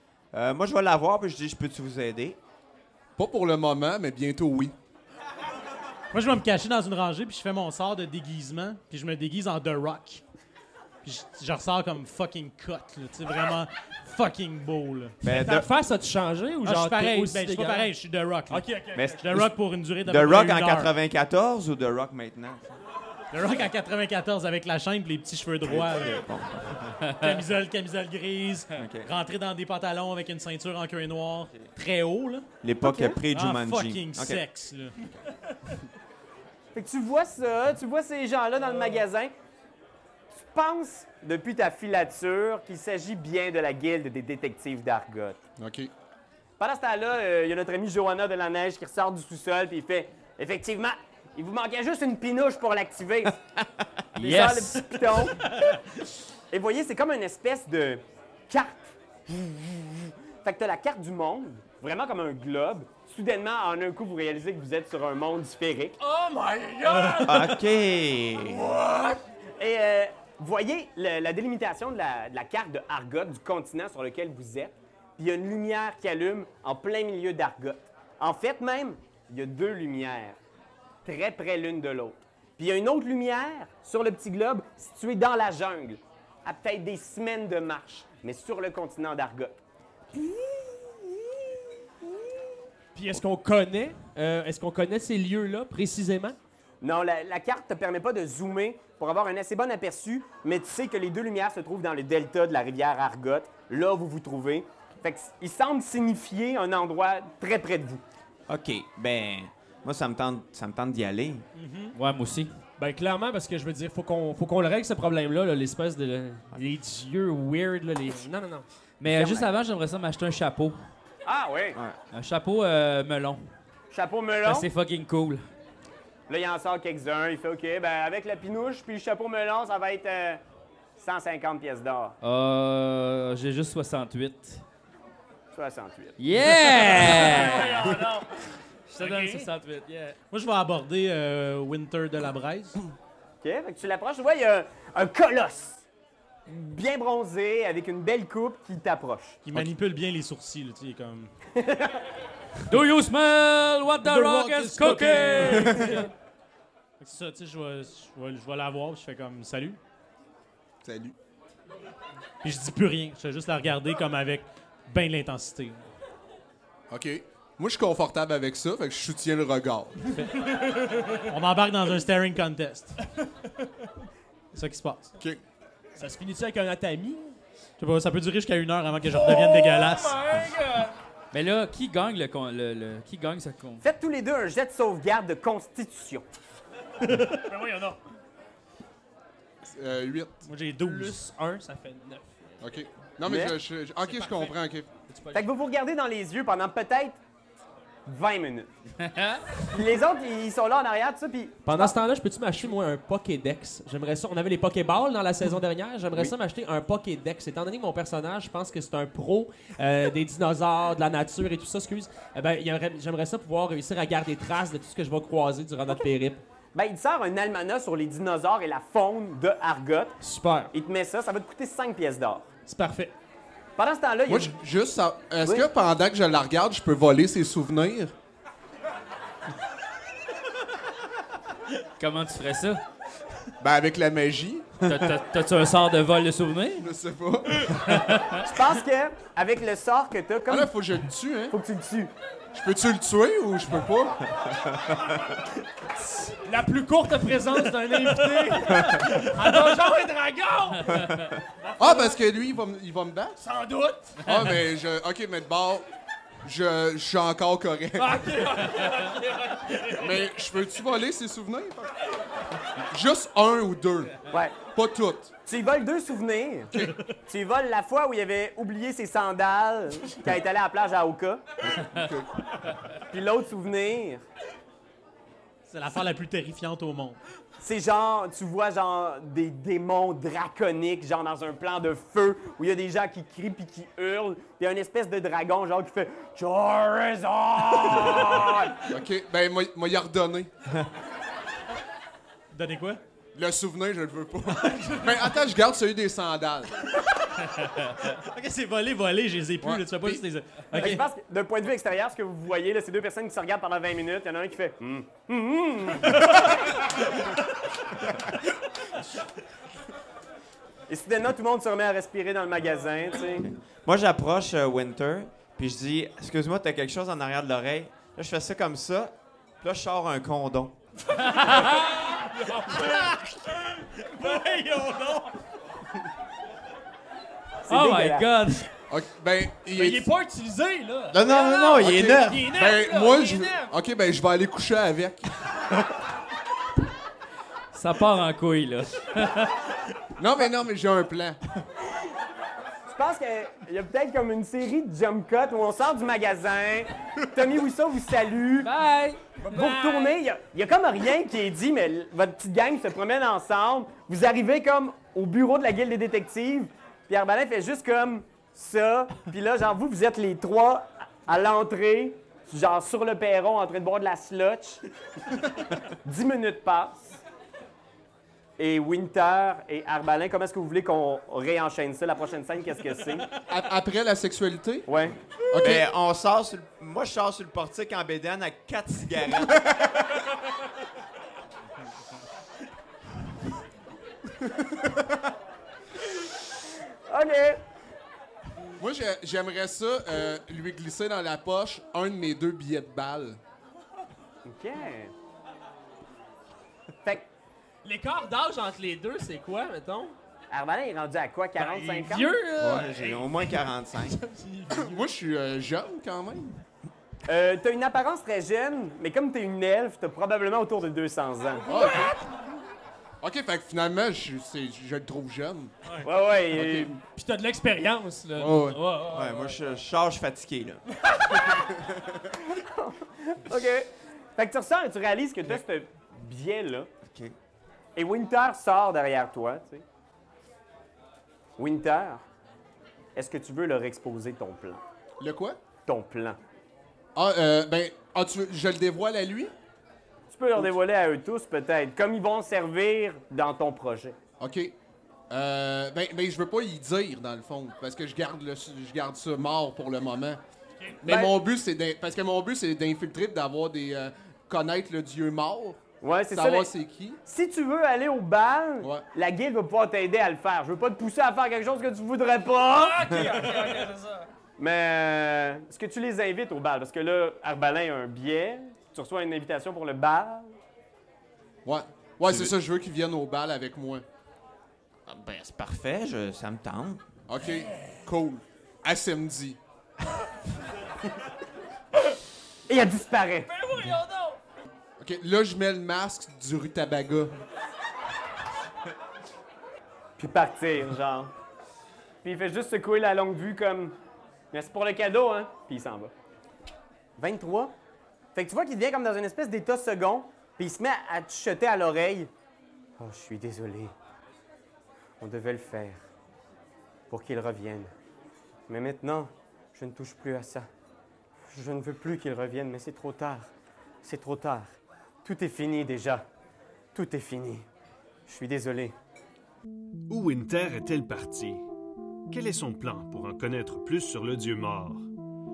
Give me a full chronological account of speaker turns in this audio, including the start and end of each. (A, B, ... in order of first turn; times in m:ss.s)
0:00.3-0:02.4 A
0:03.2-0:04.7 B
0:06.1-0:10.2 C
0:11.0-0:15.1 C
0:15.2-0:15.7 A
0:15.2-0:17.9 D
0:16.6-0:20.9 C
0:18.5-0:19.2 D
0:18.9-0:22.8 A
0:23.3-0:26.2 C
0:25.6-0:27.0 A
0:27.0-0:27.4 E
0:27.2-0:32.4 C
0:28.8-0:29.1 A
0:32.6-0:34.4 A
0:32.8-0:33.2 F
0:33.3-0:34.9 C
0:36.7-0:39.3 F
0:40.3-0:45.4 F
0:45.6-0:45.9 B
0:46.6-0:53.4 F
0:54.2-0:55.0 E
0:54.2-0:55.4 F
0:56.5-1:06.0 F
1:06.0-1:07.6 D
1:07.2-1:08.7 A
1:08.4-1:09.2 D
1:09.6-1:20.4 F
1:21.0-1:29.6 F
1:30.1-1:31.0 F
1:32.9-1:36.4 D
1:36.8-1:48.0 F
1:48.5-1:51.4 A
1:51.5-1:52.0 C
1:51.9-1:52.5 E
1:52.8-1:58.7 D
1:59.0-2:00.8 E
1:59.0-1:59.5 F
2:01.2-2:01.8 F
2:02.1-2:03.4 E
2:03.9-2:04.7 F
2:04.4-2:05.4 E
2:06.3-2:10.4 F
2:11.0-2:12.2 F
2:12.2-2:14.6 E
2:15.5-2:16.2 F
2:16.2-2:18.0 E
2:16.6-2:18.4 D
2:18.9-2:20.2 E
2:19.0-2:19.5 D
2:20.3-2:22.8 C
2:23.4-2:25.8 F
2:26.5-2:29.4 F
2:29.4-2:31.3 C
2:31.5-2:32.0 F
2:32.7-2:36.1 E
2:34.0-2:36.1 C
2:35.4-2:35.8 G
2:37.0-2:39.8 C
2:40.8-2:41.1 B
2:42.4-2:45.9 C
2:46.9-2:50.1 B
2:50.8-2:51.1 D
2:51.3-2:53.0 C
2:54.5-2:55.1 C
2:56.0-2:57.4 D
2:57.8-3:00.2 C
2:59.0-3:01.0 D
3:01.3-3:03.8 E
3:03.8-3:06.2 F
3:07.0-3:07.4 C
3:07.4-3:08.0 D
3:09.6-3:10.5 B
3:10.4-3:11.2 C
3:10.8-3:12.6 D
3:12.6-3:14.9 B
3:13.2-3:13.6 F
3:14.0-3:14.6 D
3:15.1-3:15.5 D
3:15.3-3:17.2 F
3:18.0-3:18.7 F
3:19.0-3:19.4 E
3:19.7-3:22.0 F
3:21.6-3:36.4 D
3:36.7-3:40.1 F
3:40.2-3:40.7 D
3:40.7-3:42.5 F
3:42.6-3:43.1 D
3:43.8-3:44.6 F
3:44.3-3:48.1 B
3:52.0-3:52.8 E
3:53.6-3:55.1 B
3:54.8-3:56.8 E
3:56.8-3:58.0 B
3:57.8-3:58.4 E
3:58.4-4:00.7 F
4:00.5-4:01.6 B
4:01.5-4:02.1 F
4:02.5-4:04.3 B
4:06.4-4:12.2 D
4:10.9-4:11.3 E
4:11.8-4:13.4 B
4:13.4-4:14.2 D
4:14.2-4:15.8 B
4:16.4-4:18.3 B
4:18.0-4:20.2 D
4:20.0-4:21.9 B
4:22.8-4:25.3 B
4:24.3-4:24.6 F
4:25.4-4:26.7 F
4:27.2-4:31.4 F
4:31.7-4:32.4 B
4:33.1-4:34.2 F
4:35.6-4:37.2 C
4:37.6-4:48.8 F
4:48.9-4:50.5 B
4:52.5-4:53.0 C
4:53.3-4:56.7 B
4:58.1-5:01.0 C
4:59.6-5:00.2 B
5:00.7-5:06.6 F
5:10.9-5:13.5 F
5:13.8-5:20.7 A
5:21.2-5:22.0 E
5:21.7-5:23.0 D
5:22.7-5:25.3 C
5:27.6-5:28.6 F
5:27.7-5:28.7 E
5:28.9-5:30.1 B
5:29.7-5:33.7 D
5:31.1-5:32.6 A
5:31.8-5:35.3 B
5:37.7-5:39.5 E
5:40.2-5:41.4 B
5:42.9-5:48.7 F
5:48.6-5:49.2 E
5:49.4-5:50.2 D
5:49.4-6:04.8 F
6:06.0-6:07.2 F
6:08.6-6:13.3 F
6:13.5-6:14.9 B
6:14.9-6:15.2 F
6:15.5-6:15.8 B
6:15.6-6:20.0 A
6:27.1-6:27.6 F
6:28.8-6:33.4 B
6:34.4-6:35.1 F
6:37.8-6:40.1 D
6:40.5-6:42.4 F
6:41.6-6:45.0 D
6:42.6-6:44.2 A
6:44.7-6:46.6 B
6:47.2-6:51.7 F
6:51.6-6:52.2 D
6:51.7-6:52.2 B
6:53.2-6:55.7 B
6:56.0-6:57.0 F
6:56.5-6:56.9 B
6:57.1-6:59.6 D
6:58.4-6:58.8 B
6:59.0-7:00.8 A
7:01.1-7:01.5 D
7:02.4-7:06.9 F
7:07.0-7:07.3 A
7:08.0-7:09.8 F
7:11.6-7:12.2 F
7:13.2-7:14.8 F
7:15.2-7:15.6 B
7:15.8-7:16.4 F
7:17.1-7:19.5 B
7:20.3-7:24.2 F
7:24.4-7:24.7 B
7:25.3-7:30.4 B
7:31.0-7:35.8 B
7:31.0-7:31.3 F
7:36.0-7:36.7 F
7:36.3-7:37.2 B
7:37.2-7:43.0 F
7:42.6-7:44.3 D
7:44.6-7:50.5 F
7:51.6-7:54.0 B
7:52.2-7:52.5 A
7:55.1-7:57.0 A
7:57.3-7:59.6 B
8:02.7-8:03.5 F
8:03.5-8:04.4 D
8:05.0-8:07.3 B
8:10.2-8:11.3 F
8:12.2-8:13.9 F
8:14.5-8:16.1 F
8:17.2-8:17.7 F
8:18.3-8:22.3 F
8:23.0-8:23.9 F
8:25.2-8:26.0 F
8:27.1-8:27.9 F
8:28.7-8:30.7 F
8:31.5-8:33.5 F
8:34.0-8:36.2 F
8:36.9-8:37.7 F
8:38.3-8:38.9 F
8:40.1-8:41.7 G
8:42.3-8:45.1 G